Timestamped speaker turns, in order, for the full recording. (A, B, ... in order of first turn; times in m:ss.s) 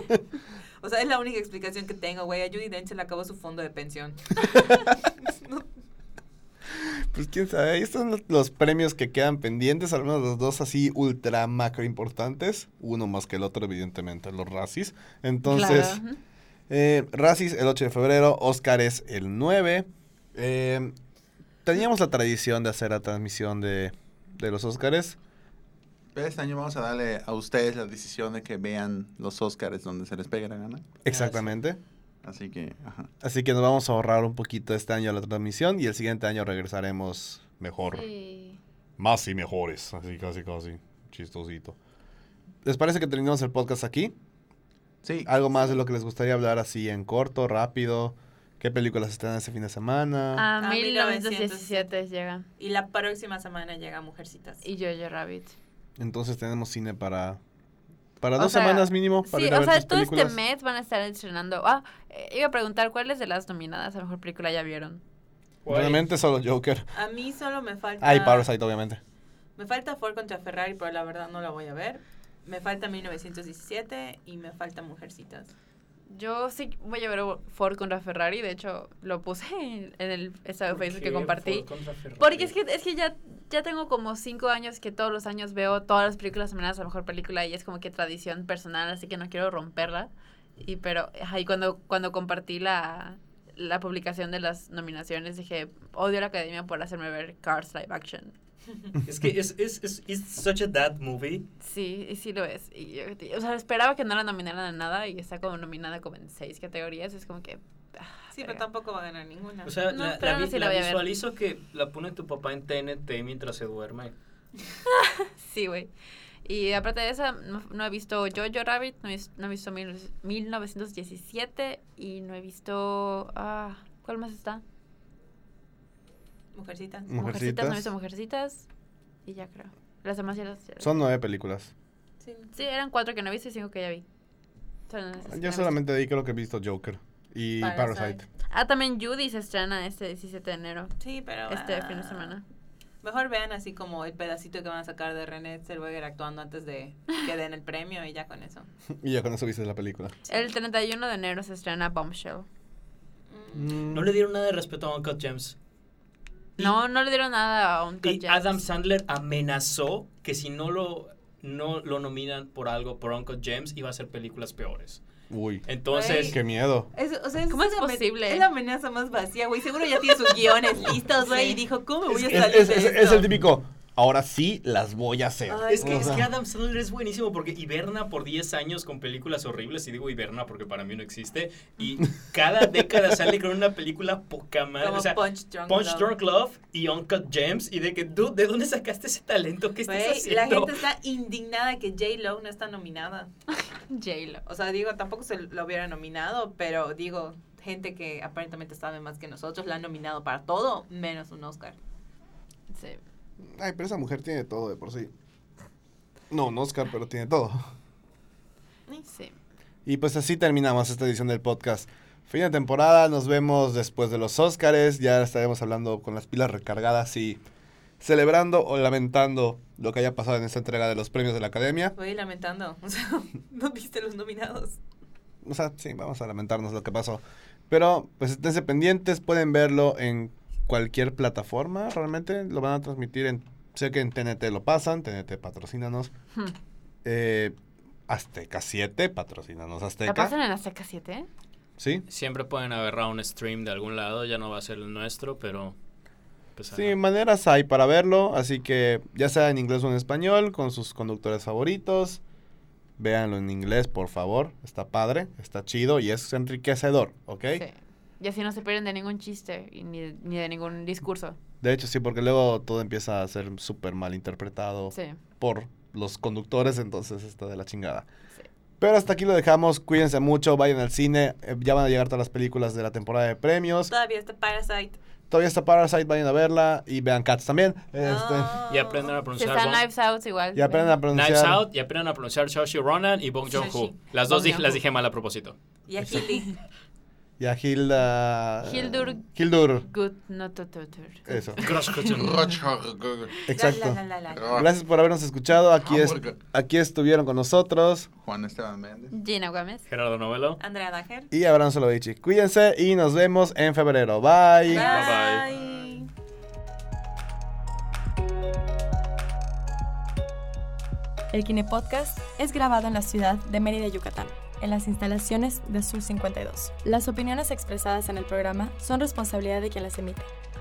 0:00.8-0:05.7 A
0:04.5-0:04.8 B
0:06.7-0:16.0 B
0:15.4-0:16.2 C
0:16.7-0:20.9 B
0:21.6-0:25.2 B
0:26.2-0:30.9 D
0:31.0-0:31.8 B
0:31.1-0:31.5 E
0:32.2-0:33.1 D
0:33.2-0:38.1 B
0:37.9-0:38.6 C
0:39.0-0:41.8 B
0:42.6-0:44.1 B
0:45.0-0:45.4 D
0:45.3-0:50.5 B
0:50.4-0:52.5 C
0:50.6-0:51.9 A
0:52.6-0:54.6 A
0:54.6-0:55.6 C
0:56.0-0:57.4 B
0:58.2-1:00.4 B
0:58.4-1:05.0 C
1:05.6-1:06.0 E
1:05.7-1:06.9 B
1:06.9-1:08.5 A
1:08.0-1:09.0 B
1:09.6-1:15.5 A
1:16.1-1:21.7 C
1:20.7-1:22.5 E
1:22.2-1:38.3 C
1:39.0-1:41.5 E
1:41.6-1:48.6 C
1:48.3-1:49.7 A
1:49.6-1:54.1 E
1:49.9-1:51.0 C
1:54.9-1:55.9 C
1:56.4-2:04.6 C
2:06.5-2:07.1 A
2:07.1-2:07.9 B
2:07.1-2:08.7 C
2:09.3-2:10.9 C
2:10.8-2:11.7 B
2:12.2-2:12.5 A
2:12.5-2:14.0 C
2:14.9-2:15.8 C
2:15.3-2:18.2 B
2:17.6-2:18.2 A
2:18.5-2:21.0 C
2:21.0-2:22.4 A
2:21.5-2:22.4 C
2:23.0-2:28.7 A
2:29.0-2:30.2 B
2:30.3-2:32.5 C
2:33.3-2:33.8 A
2:33.5-2:34.1 B
2:33.9-2:35.6 E
2:36.6-2:38.6 C
2:38.0-2:45.0 E
2:45.3-2:46.9 B
2:45.7-2:46.4 E
2:45.9-2:46.4 A
2:46.9-2:53.2 A
2:47.5-2:48.5 C
2:51.2-2:51.6 C
2:52.1-2:56.3 B
2:55.5-2:56.3 A
2:55.7-3:10.8 E
3:04.8-3:06.1 A
3:09.9-3:13.3 A
3:13.6-3:14.4 C
3:14.5-3:21.8 A
3:22.7-3:23.0 C
3:23.4-3:25.1 B
3:26.3-3:27.6 B
3:29.1-3:29.3 C
3:29.9-3:37.4 B
3:38.0-3:42.0 B
3:42.0-3:44.8 A
3:45.4-3:56.1 B
3:57.0-3:57.6 B
3:58.1-4:00.4 B
4:00.0-4:01.3 C
4:01.8-4:02.0 B
4:02.1-4:05.8 E
4:06.6-4:07.0 E
4:06.7-4:12.2 B
4:13.0-4:17.6 B
4:17.5-4:21.4 C
4:21.6-4:28.1 B
4:24.9-4:25.2 C
4:28.8-4:33.9 B
4:33.9-4:35.0 A
4:35.3-4:38.6 B
4:38.0-4:39.1 A
4:38.7-4:39.8 E
4:39.4-4:41.0 C
4:40.6-4:41.6 B
4:41.1-4:45.6 E
4:43.5-4:43.9 A
4:44.3-4:44.8 C
4:45.9-4:46.6 A
4:47.4-4:49.9 B
4:48.6-4:49.3 C
4:49.8-4:52.6 C
4:51.3-4:51.6 B
4:51.6-4:52.5 E
4:52.1-4:53.3 D
4:53.5-4:54.0 B
4:53.5-4:54.7 A
4:54.4-4:54.6 D
4:54.5-4:58.1 B
4:55.9-4:56.4 D
4:58.2-4:59.1 D
4:59.1-4:59.8 C
4:59.9-5:00.6 E
5:00.6-5:01.3 A
5:01.3-5:05.0 B
5:04.7-5:06.1 A
5:04.7-5:05.4 E
5:11.3-5:20.3 F